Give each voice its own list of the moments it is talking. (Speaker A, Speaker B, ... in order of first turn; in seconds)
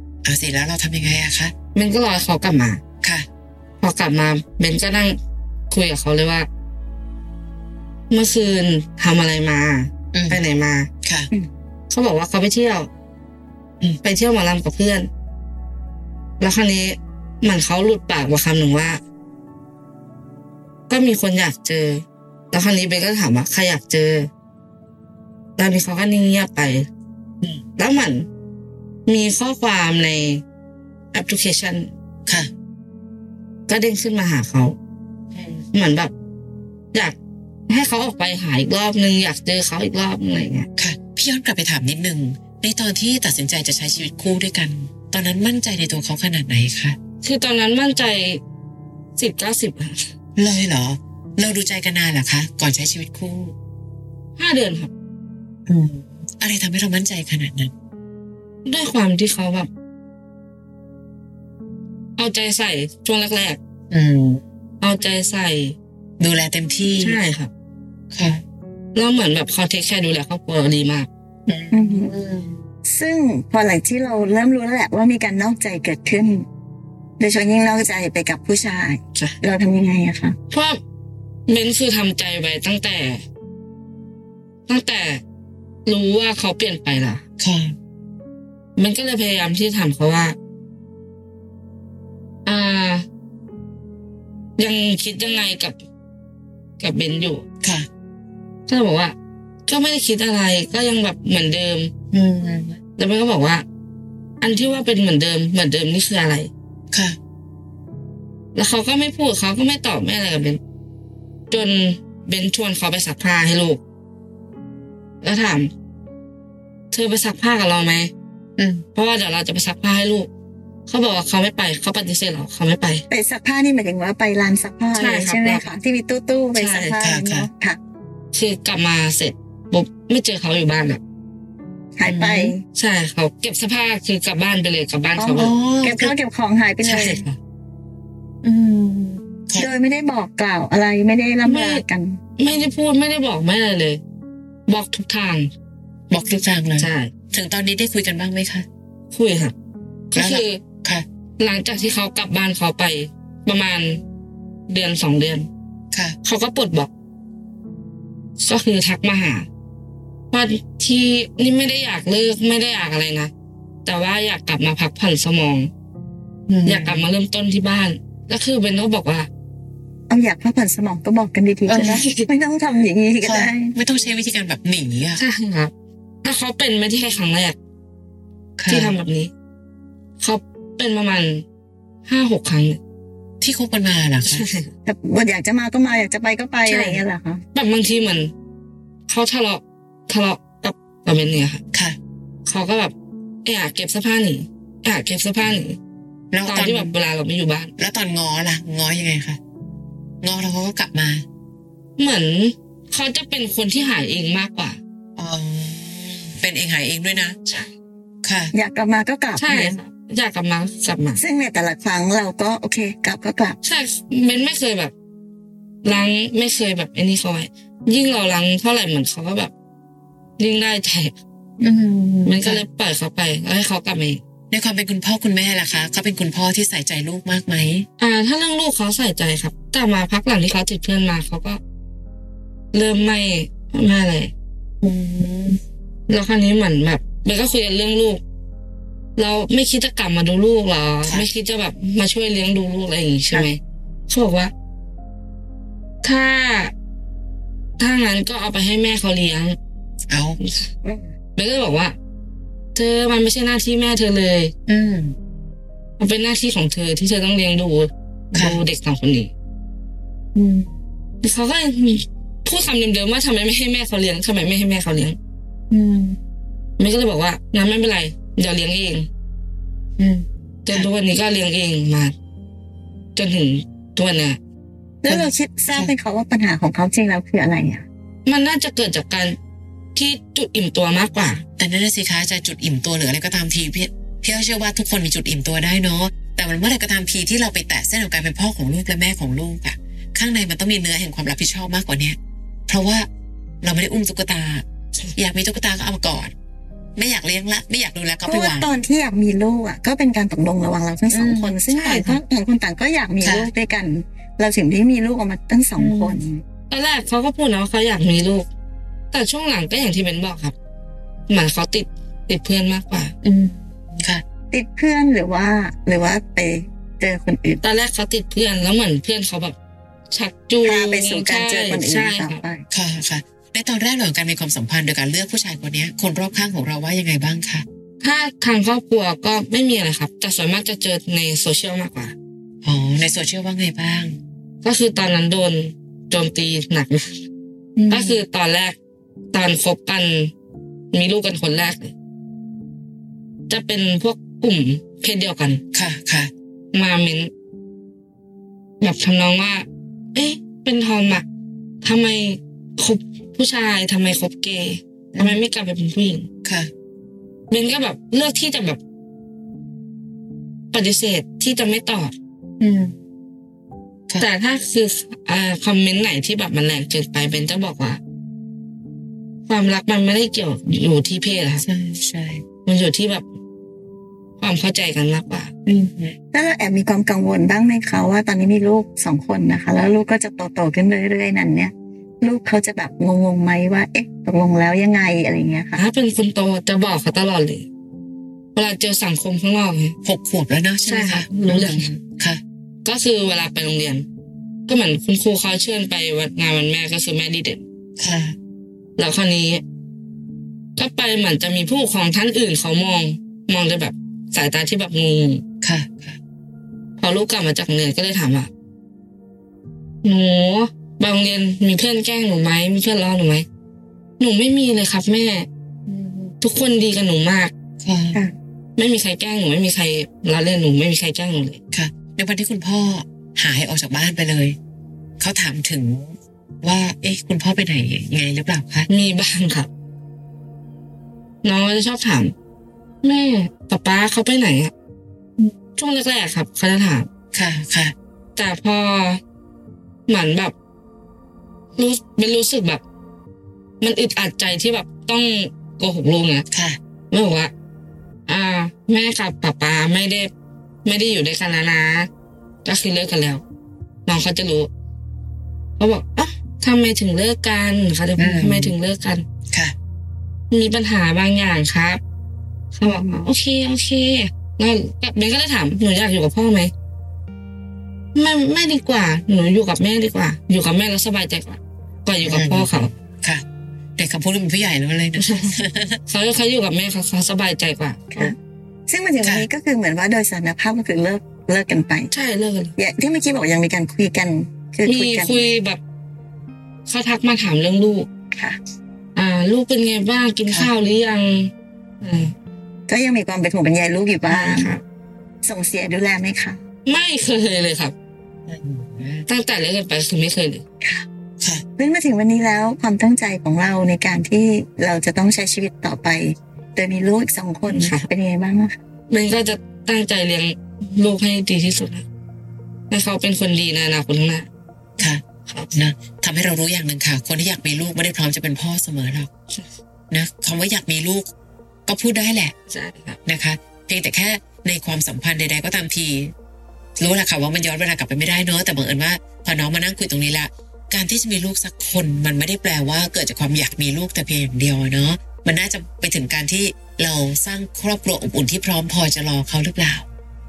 Speaker A: 0.2-1.5, 10.1-10.4, 11.0-11.3, 35.3-35.6, 40.8-47.0, 50.4-53.5, 55.7-57.7, 63.9-64.4, 66.2-67.2, 68.1-68.4, 71.5-72.6, 87.4-87.7, 97.6-97.9, 102.1-102.8, 106.9-107.2, 118.6-118.8, 127.0-127.5, 132.0-132.5, 135.3-136.1, 138.4-139.7, 146.1-148.7, 150.2-151.0, 155.9-156.2, 166.5-167.1, 171.7-172.0, 173.2-175.2, 178.6-178.9, 183.4-184.4, 196.3-196.9, 197.8-199.4, 200.2-201.2, 205.2-207.4, 208.2-208.5, 221.6-222.6, 224.5-227.9, 234.8-235.6, 250.1-250.4, 254.7-255.2, 258.3-258.6, 260.3-260.7, 265.7-266.2, 270.0-270.9, 275.1-275.9, 281.6-292.2, 292.7-293.1, 293.6-294.6, 295.1-296.3, 296.9-298.7, 301.1-301.6, 303.2-303.5, 305.8-306.2, 313.2-314.2, 322.7-327.6, 332.6-334.2, 337.8-338.2, 345.7-346.3, 355.1-355.4, 356.4-356.7, 362.6-362.9, 371.6-372.4, 375.6-376.1, 390.0-392.4, 398.0-398.4, 405.6-406.2, 415.9-416.3, 417.8-418.2, 421.7-424.6, 425.2-428.9, 437.3-437.9, 446.5-446.8, 458.2-458.8, 472.2-472.7, 474.0-476.0, 498.5-499.3, 515.0-519.3, 520.1-521.3, 521.9-522.5, 523.2-526.3, 527.0-540.0
Speaker B: 1.7-2.8, 3.8-5.2, 5.7-6.5, 8.1-10.9, 11.9-12.9, 14.0-15.1, 16.4-19.0, 20.9-24.3, 25.6-26.9, 27.8-28.3, 29.1-30.4, 31.1-31.9, 33.7-34.8, 35.7-36.1, 37.7-40.7, 47.2-48.4, 49.2-50.0, 54.4-54.9, 58.6-59.7, 62.2-63.6, 64.8-65.8, 66.8-67.5, 68.9-71.1, 80.5-80.8, 81.5-83.2, 84.7-85.2, 85.8-87.2, 88.8-90.3, 92.4-93.0, 94.6-95.8, 96.8-97.4, 98.7-99.1, 99.7-101.9, 103.0-103.6, 104.4-106.5, 108.5-110.6, 111.5-113.8, 115.2-115.7, 116.9-118.1, 118.9-120.3, 120.9-123.0, 124.9-125.6, 126.5-126.9, 128.3-131.0, 132.7-135.5, 136.8-137.4, 141.4-141.8, 142.4-144.0, 144.7-145.5, 146.8-147.1, 149.1-149.5, 150.1-150.6, 151.4-154.0, 154.7-155.5, 156.2-156.9, 158.4-159.5, 160.3-163.3, 163.8-165.7, 166.6-169.3, 171.7-172.3, 175.2-175.7, 176.2-177.6, 178.7-179.3, 180.2-181.4, 182.1-182.8, 184.2-184.7, 186.7-187.0, 187.5-188.3, 189.1-191.6, 192.4-192.9, 193.4-195.8, 196.4-197.7, 202.0-204.8, 207.4-207.7, 209.4-211.2, 213.6-214.9, 215.8-219.5, 220.4-221.1, 222.2-224.2, 228.0-231.6, 232.7-234.3, 236.1-238.2, 239.2-244.5, 246.0-246.7, 247.8-249.6, 250.4-250.7, 251.3-251.9, 252.7-254.5, 256.0-259.3, 261.2-265.2, 266.8-269.1, 270.6-272.1, 273.1-274.4, 278.2-279.4, 279.9-281.4, 301.7-302.2, 306.7-308.5, 309.1-310.5, 311.3-313.1, 317.6-319.6, 320.1-322.4, 328.0-332.1, 334.6-337.2, 337.9-338.8, 339.3-340.3, 340.9-341.9, 343.5-345.6, 346.7-347.3, 348.8-351.2, 351.8-356.3, 357.5-358.8, 360.7-362.1, 364.2-368.0, 369.5-371.6, 372.6-373.2, 374.4-375.5, 385.8-387.7, 388.5-389.9, 390.9-391.9, 392.8-394.0, 394.7-397.6, 399.0-399.6, 400.8-405.4, 407.0-408.5, 410.0-413.4, 414.2-415.5, 416.4-417.5, 418.8-421.6, 428.9-429.7, 431.4-432.3, 433.0-434.7, 435.8-437.1, 438.4-439.2, 440.1-440.5, 441.8-442.8, 443.8-446.4, 447.1-447.5, 448.3-450.3, 450.8-452.1, 452.6-453.4, 454.1-454.7, 455.8-459.2, 460.5-462.0, 462.7-466.7, 468.1-472.9, 475.2-475.5, 476.1-478.3, 482.1-482.7, 484.9-485.8, 486.9-488.1, 489.1-492.3, 494.3-494.8, 496.9-497.9, 499.3-500.6, 507.7-508.1, 509.1-512.0, 512.9-514.5, 522.7-523.2
Speaker C: 71.7-72.1, 72.8-76.5, 77.2-80.4, 123.1-127.8, 132.0-132.6, 135.2-137.2, 139.6-142.2, 170.1-173.7, 184.8-187.4, 208.5-209.8, 211.2-213.6, 275.0-277.8, 298.2-306.4, 314.5-317.6, 320.6-322.6, 376.3-385.8, 462.8-463.3, 478.9-482.1, 482.8-485.4, 492.9-494.8, 495.4-496.6, 501.8-508.8